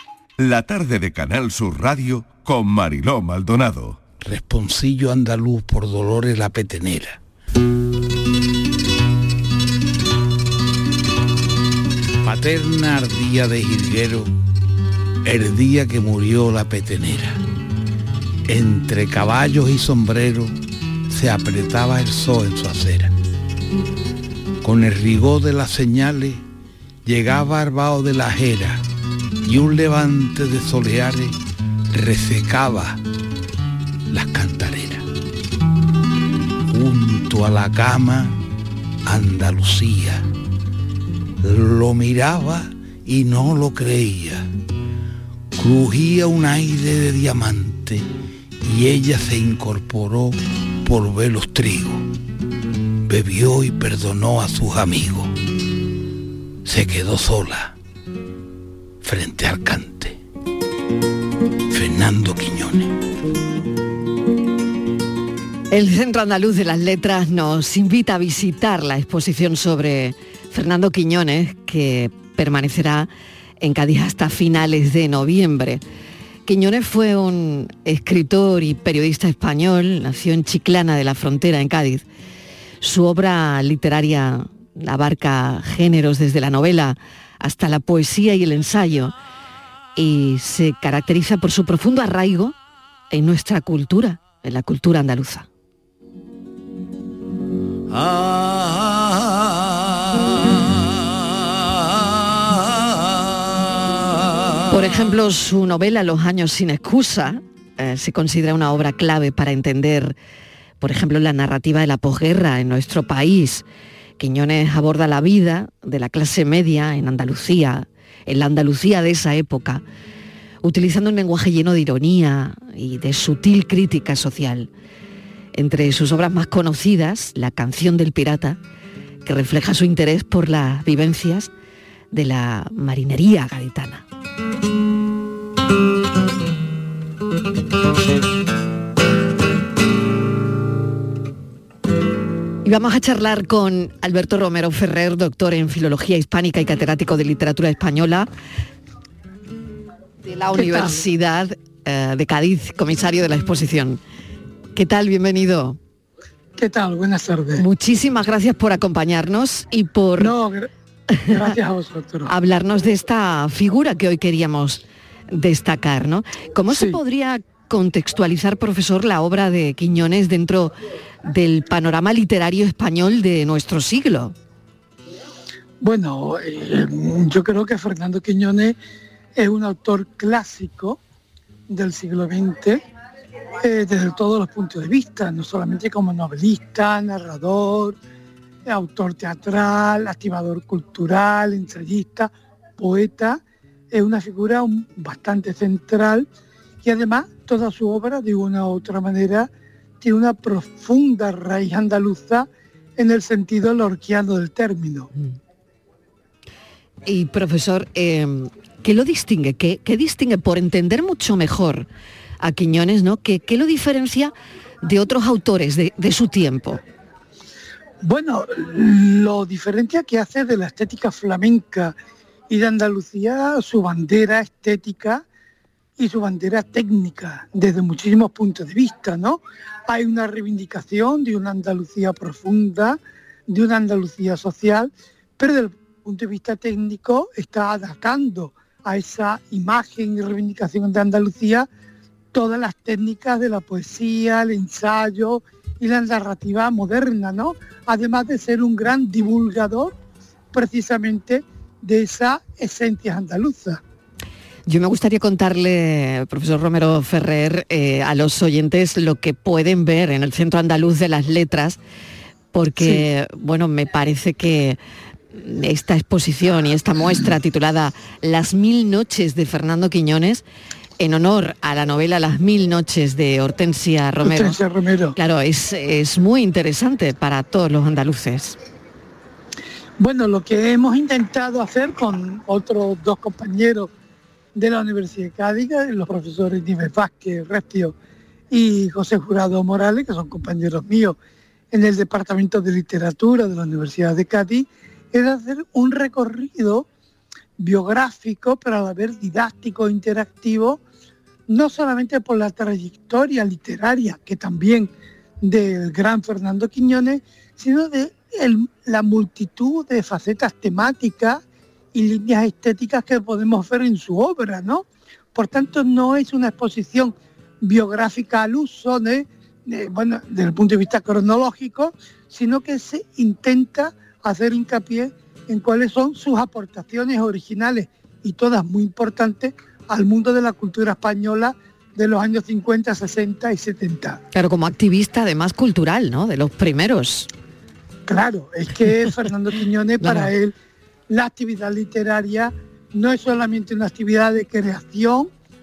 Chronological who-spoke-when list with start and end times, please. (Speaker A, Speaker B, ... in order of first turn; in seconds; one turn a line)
Speaker A: 0.4-4.0
Speaker B: 4.2-7.2
Speaker B: 12.2-14.3
Speaker B: 15.2-17.4
Speaker B: 18.5-20.6
Speaker B: 21.1-23.1
Speaker B: 24.6-26.4
Speaker B: 27.1-28.8
Speaker B: 29.4-31.4
Speaker B: 31.9-33.0
Speaker B: 34.1-35.0
Speaker B: 36.7-38.4
Speaker B: 39.0-40.3
Speaker B: 41.4-44.5
Speaker B: 45.6-48.1
Speaker B: 48.6-52.1
Speaker B: 53.1-55.3
Speaker B: 56.6-57.8
Speaker B: 59.0-60.2
Speaker B: 61.7-63.0
Speaker C: 65.7-75.8
Speaker C: 76.5-82.0
Speaker C: 82.8-89.2
Speaker C: 90.0-92.5
Speaker C: 93.1-95.5
Speaker C: 104.7-110.2
Speaker C: 110.8-113.7
Speaker C: 114.2-119.8
Speaker C: 120.6-124.7
Speaker C: 125.5-128.6
Speaker C: 129.2-131.5
Speaker C: 132.1-134.0
Speaker C: 142.7-148.3
Speaker C: 150.4-154.0
Speaker D: 150.5-151.0
Speaker C: 154.8-155.8
Speaker D: 156.6-157.6
Speaker C: 157.6-160.3
Speaker D: 160.2-160.7
Speaker D: 161.3-162.3
Speaker C: 162.3-170.8
Speaker D: 166.7-167.0
Speaker C: 171.3-174.3
Speaker D: 175.8-178.8
Speaker D: 179.4-181.0
Speaker D: 181.7-182.8
Speaker D: 183.6-188.0
Speaker D: 188.7-196.3
Speaker D: 196.8-199.5
Speaker D: 200.0-205.1
Speaker C: 207.1-211.9
Speaker C: 212.4-216.8
Speaker D: 218.0-222.0
Speaker D: 222.5-225.2
Speaker D: 226.0-233.0
Speaker D: 233.5-241.7
Speaker D: 242.3-250.0
Speaker D: 250.5-253.8
Speaker C: 254.7-261.8
Speaker C: 262.5-264.8
Speaker C: 265.3-270.4
Speaker C: 271.0-274.6
Speaker D: 274.2-275.2
Speaker C: 275.2-278.6
Speaker D: 280.0-283.9
Speaker D: 284.6-288.0
Speaker D: 288.5-291.2
Speaker D: 291.7-296.9
Speaker D: 297.6-300.8
Speaker D: 301.5-311.4
Speaker D: 311.9-334.2
Speaker C: 334.3-337.3
Speaker D: 338.1-340.5
Speaker C: 340.0-340.3
Speaker D: 341.1-345.3